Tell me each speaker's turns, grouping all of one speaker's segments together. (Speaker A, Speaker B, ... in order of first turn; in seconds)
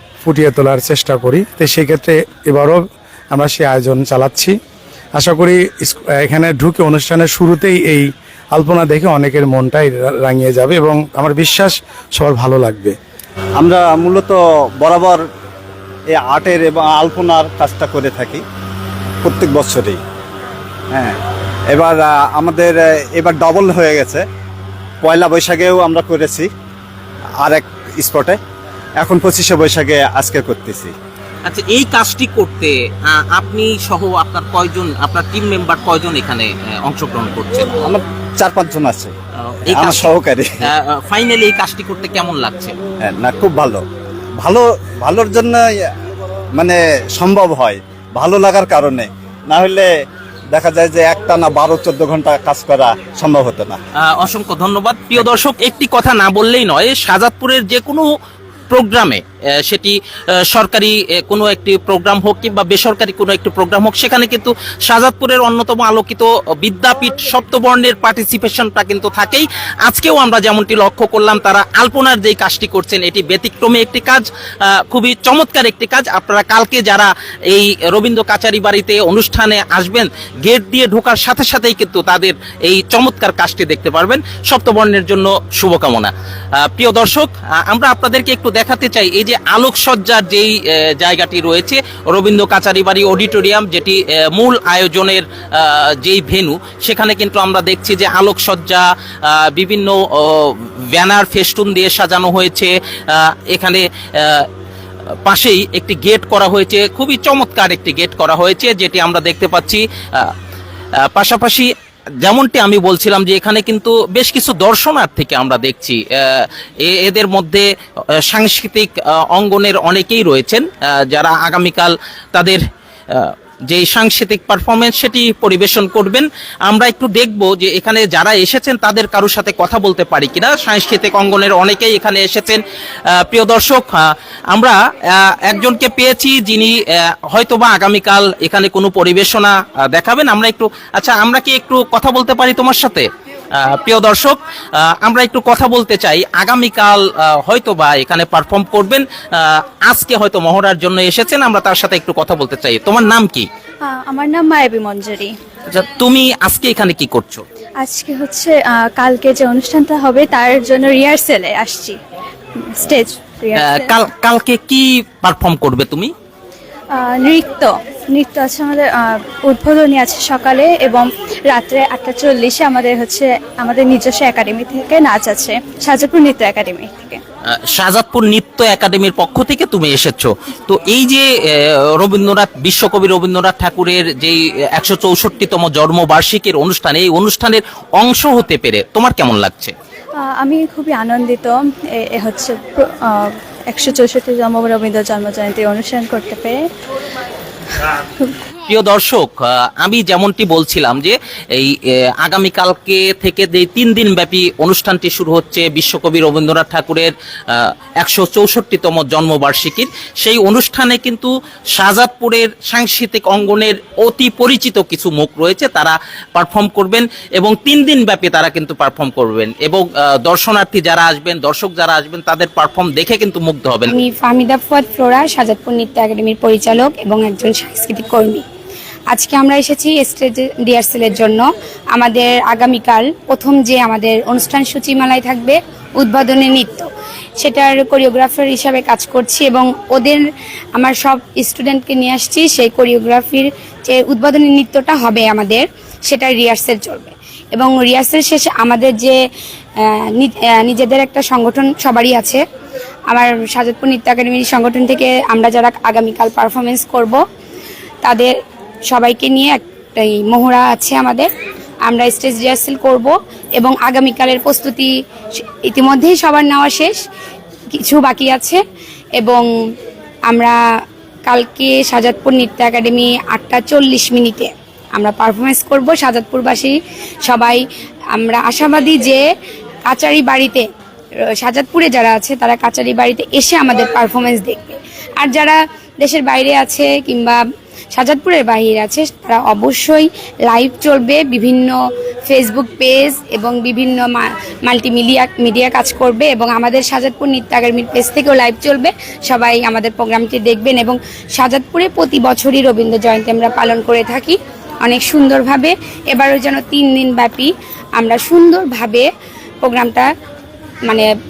Speaker A: 0.2-4.5, 5.2-13.0
Speaker B: 13.6-15.2, 16.1-18.4, 19.2-20.0, 20.9-21.2, 21.7-24.2, 25.0-26.5, 27.4-28.4, 29.0-30.9, 37.8-39.1, 39.7-40.5, 43.0-43.8, 44.4-45.7, 46.5-49.9, 50.5-53.8
Speaker C: 31.4-37.8, 39.4-42.8, 54.0-58.1, 58.7-104.5, 105.2-110.3, 111.0-111.7, 112.2-153.5, 155.7-157.4, 163.6-166.1, 177.4-189.7, 198.7-223.9
Speaker D: 153.9-155.3, 157.8-162.0, 162.8-163.9, 166.9-177.2, 190.3-196.6
Speaker E: 223.9-228.4, 229.1-236.9, 237.4-240.2, 240.7-249.2, 249.8-252.4, 253.1-257.2, 258.0-258.3, 258.9-261.3, 261.9-264.9, 265.6-267.0, 267.8-268.6, 269.2-269.4, 270.3-270.5, 271.2-277.6, 278.1-279.2, 279.9-280.6, 281.4-287.4, 287.9-291.8, 292.3-309.1, 309.6-310.1